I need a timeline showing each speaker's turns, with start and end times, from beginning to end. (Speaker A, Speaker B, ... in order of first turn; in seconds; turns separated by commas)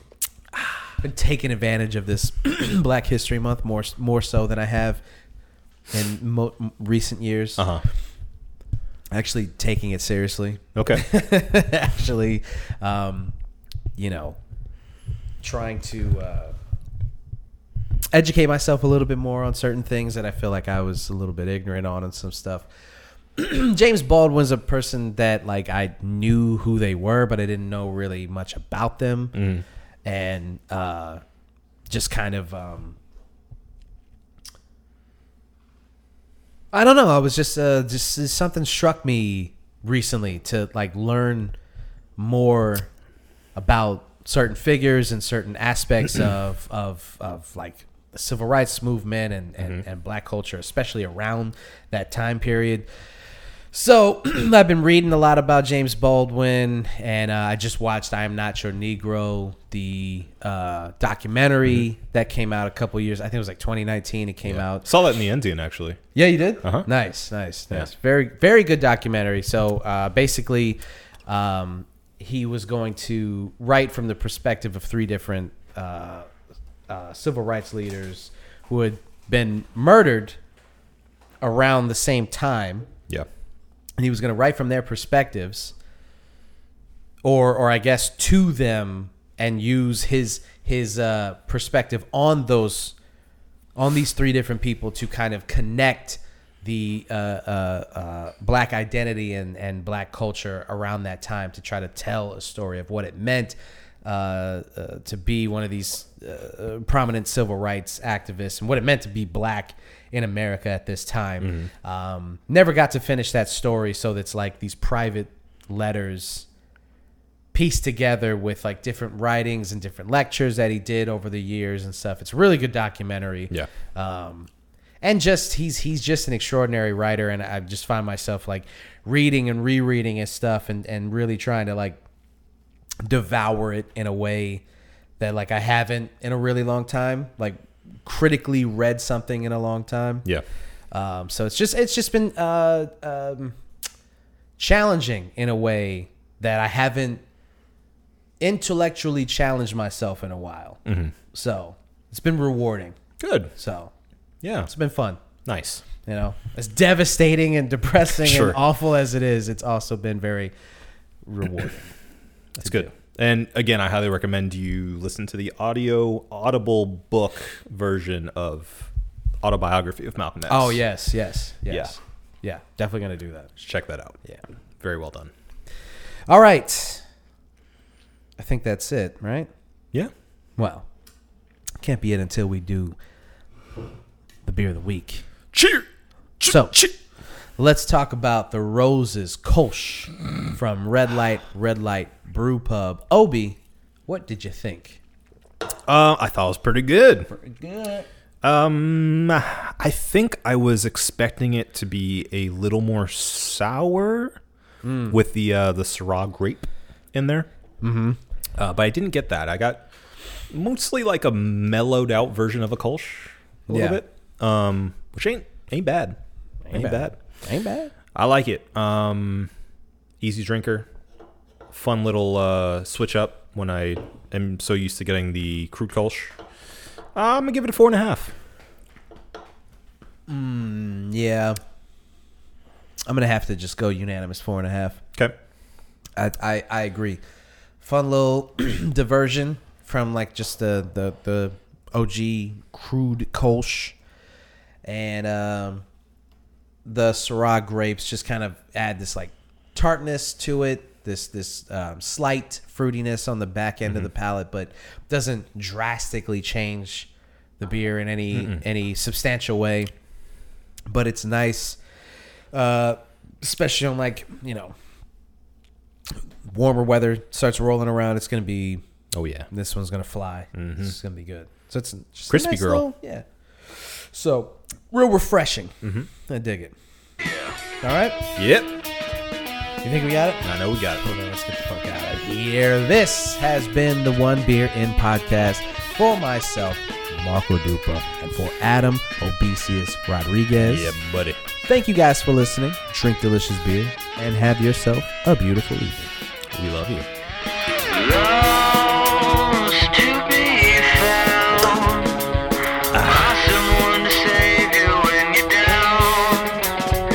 Speaker A: 0.9-5.0, Speaker A: 5.9-7.7, Speaker B: 7.6-7.8, Speaker A: 9.1-13.3, Speaker B: 10.8-11.1, Speaker A: 14.0-14.4, Speaker A: 15.4-16.6, Speaker A: 18.1-22.7, Speaker A: 23.4-29.4, Speaker B: 29.4-29.6, Speaker A: 30.1-31.2, Speaker A: 31.9-33.0, Speaker A: 36.7-41.6, Speaker A: 42.2-42.9, Speaker A: 43.6-52.9, Speaker A: 53.7-64.9, Speaker B: 64.4-66.0, Speaker A: 66.2-76.3, Speaker B: 66.6-66.9, Speaker A: 76.9-80.4, Speaker A: 81.4-82.9, Speaker A: 84.0-85.7, Speaker A: 87.2-93.0, Speaker A: 93.8-116.5, Speaker B: 111.4-111.7, Speaker A: 117.5-124.5, Speaker A: 125.0-132.0, Speaker A: 133.1-134.6, Speaker A: 135.2-140.3, Speaker A: 140.9-143.6, Speaker A: 144.6-147.2, Speaker A: 148.4-153.0, Speaker B: 150.9-151.1, Speaker B: 153.2-153.5, Speaker A: 153.6-153.9, Speaker B: 154.4-154.7, Speaker A: 154.7-155.2, Speaker B: 155.4-155.8, Speaker A: 156.1-160.5, Speaker B: 158.2-158.6, Speaker A: 161.2-161.9, Speaker B: 162.6-168.9, Speaker A: 162.6-162.9, Speaker B: 169.4-170.8, Speaker A: 170.5-173.5, Speaker B: 173.6-174.2, Speaker B: 174.8-175.3, Speaker A: 176.3-177.0, Speaker A: 178.4-179.5, Speaker A: 180.6-180.9, Speaker A: 181.8-183.0, Speaker A: 184.4-185.3, Speaker B: 185.5-185.9, Speaker B: 186.4-186.9, Speaker A: 186.4-186.8, Speaker A: 187.6-195.0, Speaker B: 195.9-197.3, Speaker A: 197.3-198.1, Speaker B: 198.4-204.4, Speaker A: 204.8-205.2, Speaker B: 205.1-207.5, Speaker A: 207.8-208.2, Speaker B: 208.6-209.9, Speaker B: 210.5-216.2, Speaker A: 213.7-214.0, Speaker A: 216.7-217.9, Speaker B: 216.7-217.2, Speaker B: 218.1-219.5, Speaker B: 220.2-220.9, Speaker B: 221.7-226.3, Speaker B: 227.2-228.3, Speaker A: 230.3-231.6, Speaker A: 233.1-235.0, Speaker A: 236.2-237.2, Speaker A: 237.8-244.0, Speaker A: 244.8-245.8, Speaker A: 246.8-259.9, Speaker B: 258.3-258.6, Speaker A: 260.9-261.8, Speaker A: 262.5-264.7, Speaker A: 266.4-268.8, Speaker B: 269.1-269.5, Speaker A: 269.5-276.8, Speaker B: 270.6-270.9, Speaker B: 272.3-272.9, Speaker B: 275.8-276.1, Speaker C: 277.2-277.6, Speaker A: 277.8-278.2, Speaker B: 278.4-278.7, Speaker A: 279.8-280.4, Speaker B: 280.4-281.1, Speaker A: 281.0-291.0, Speaker B: 290.6-291.4, Speaker A: 291.7-296.1, Speaker B: 296.5-297.1, Speaker C: 297.8-302.3, Speaker C: 302.9-306.8, Speaker B: 302.9-303.3